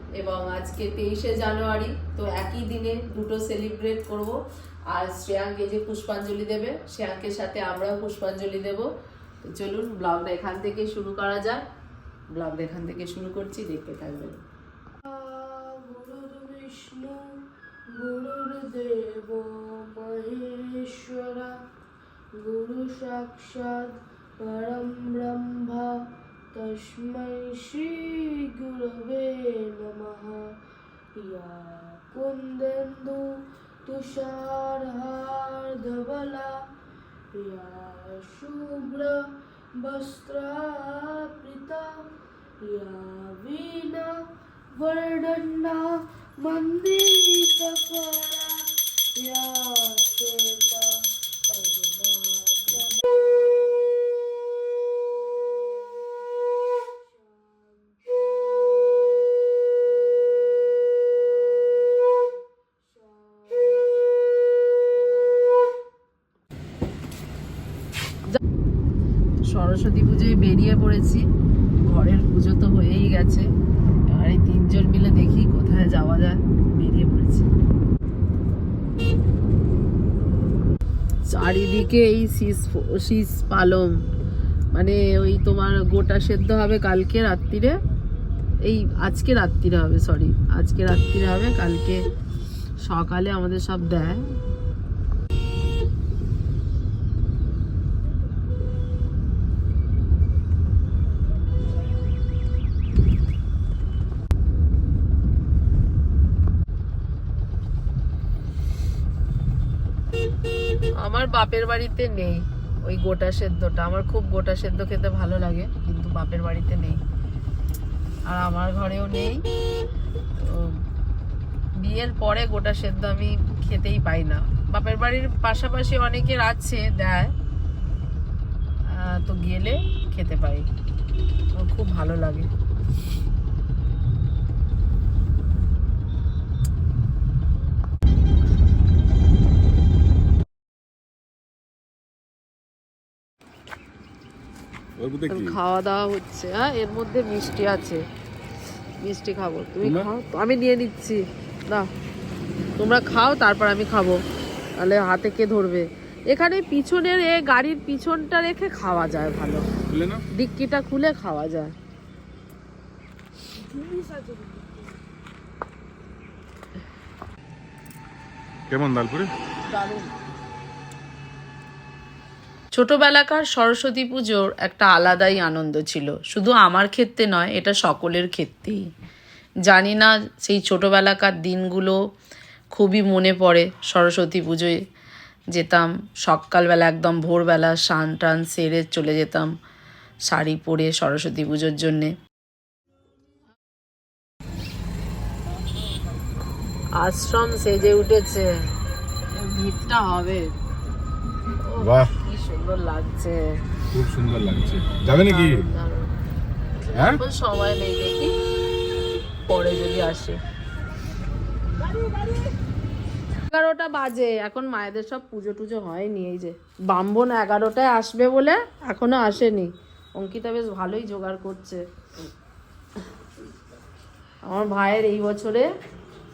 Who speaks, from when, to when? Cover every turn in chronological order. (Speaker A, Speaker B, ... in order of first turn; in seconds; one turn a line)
Speaker A: 0.2-4.3
Speaker A: 4.9-8.9
Speaker A: 9.4-11.6
Speaker A: 12.3-14.4
Speaker B: 15.1-17.4
Speaker B: 17.9-21.6
Speaker B: 22.4-26.0
Speaker B: 26.5-30.6
Speaker B: 31.2-36.6
Speaker B: 37.3-42.0
Speaker B: 42.6-44.2
Speaker B: 44.7-53.9
Speaker B: 57.1-59.0
Speaker B: 61.2-62.2
Speaker B: 63.0-63.9
Speaker A: 69.5-71.3
Speaker A: 71.8-73.5
Speaker A: 74.1-77.5
Speaker A: 81.3-84.0
Speaker A: 84.7-87.8
Speaker A: 88.6-92.0
Speaker A: 92.8-94.2
Speaker A: 111.0-117.0
Speaker A: 118.3-119.4
Speaker A: 120.4-120.7
Speaker A: 121.8-127.3
Speaker A: 128.9-130.7
Speaker A: 131.6-132.5
Speaker C: 145.0-145.6
Speaker A: 145.3-148.0
Speaker A: 149.0-151.9
Speaker A: 152.8-154.2
Speaker A: 154.8-159.7
Speaker C: 159.9-160.2
Speaker A: 160.3-161.7
Speaker C: 168.7-169.3
Speaker A: 169.7-170.1
Speaker A: 172.7-178.8
Speaker A: 179.7-182.0
Speaker A: 182.7-184.8
Speaker A: 185.5-189.5
Speaker A: 190.3-192.1
Speaker A: 197.0-198.5
Speaker A: 199.3-200.5
Speaker A: 201.6-203.5
Speaker C: 201.8-202.1
Speaker C: 203.9-205.6
Speaker A: 205.1-206.1
Speaker A: 206.9-208.3
Speaker C: 206.9-207.2
Speaker A: 209.5-210.4
Speaker A: 213.5-221.8
Speaker A: 224.5-225.7